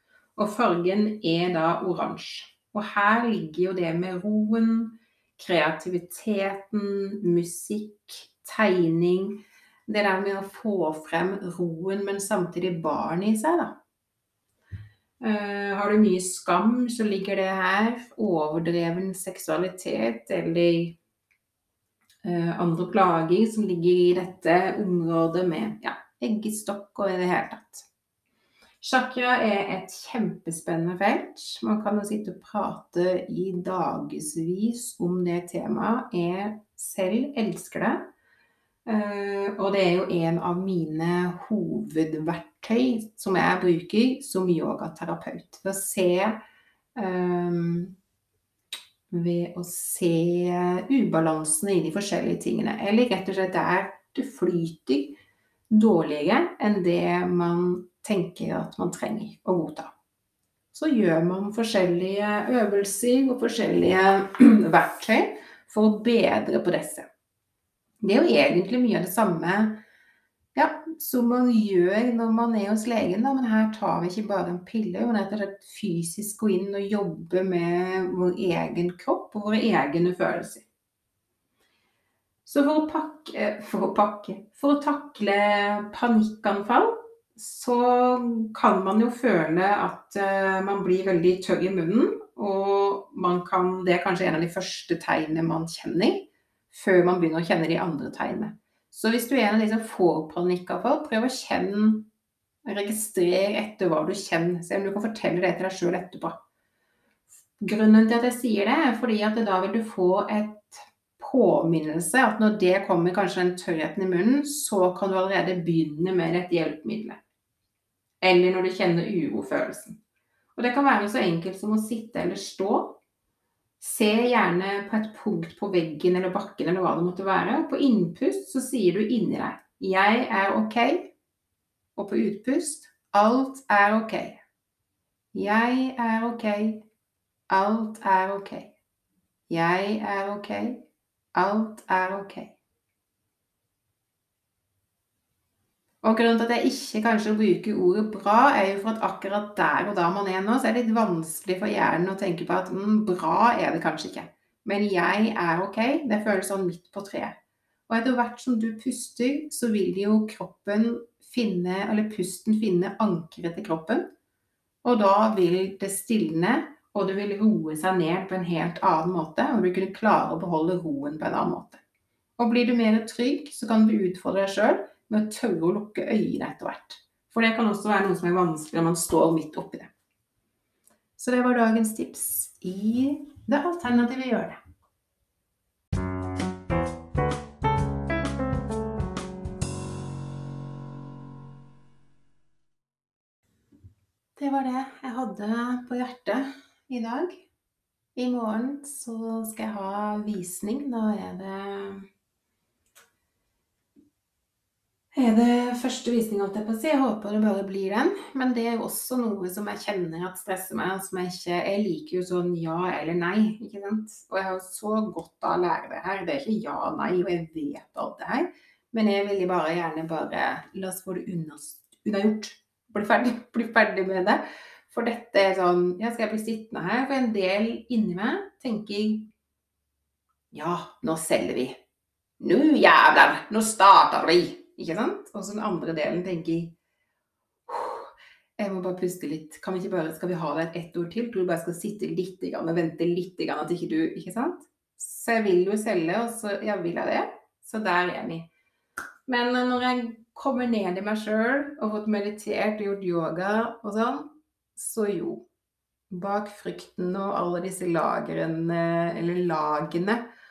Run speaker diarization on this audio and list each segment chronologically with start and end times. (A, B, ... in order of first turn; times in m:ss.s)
0:00.4-0:13.8 A
0:15.2-0:21.0 A
0:22.2-0:27.9 A
0:28.8-0:38.1 A
0:38.9-0:46.4 A
0:47.0-0:48.0 A
0:49.1-0:55.2 A
0:55.7-0:59.9 A
1:00.7-1:07.1 A
1:08.0-1:09.8 A
1:10.6-1:20.7 A
1:22.4-1:42.1 A
1:42.7-1:46.4 A
1:47.6-1:57.2 A
1:58.2-2:00.0 A
2:00.6-2:03.0 A
2:03.8-2:11.1 A
2:12.0-2:14.4 A
2:15.3-2:16.9 A
2:17.5-2:18.8 A
2:19.5-2:22.6 A
2:26.0-2:37.4 A
2:37.9-2:44.1 A
2:44.8-2:51.8 A
2:52.4-2:59.9 A
3:01.2-3:04.6 A
3:14.4-3:17.4 A
3:18.2-3:22.0 A
3:25.1-3:49.3 A
3:50.5-3:51.8 A
3:52.4-3:56.8 A
3:57.7-4:08.5 A
4:09.3-4:15.4 A
4:16.1-4:20.2 A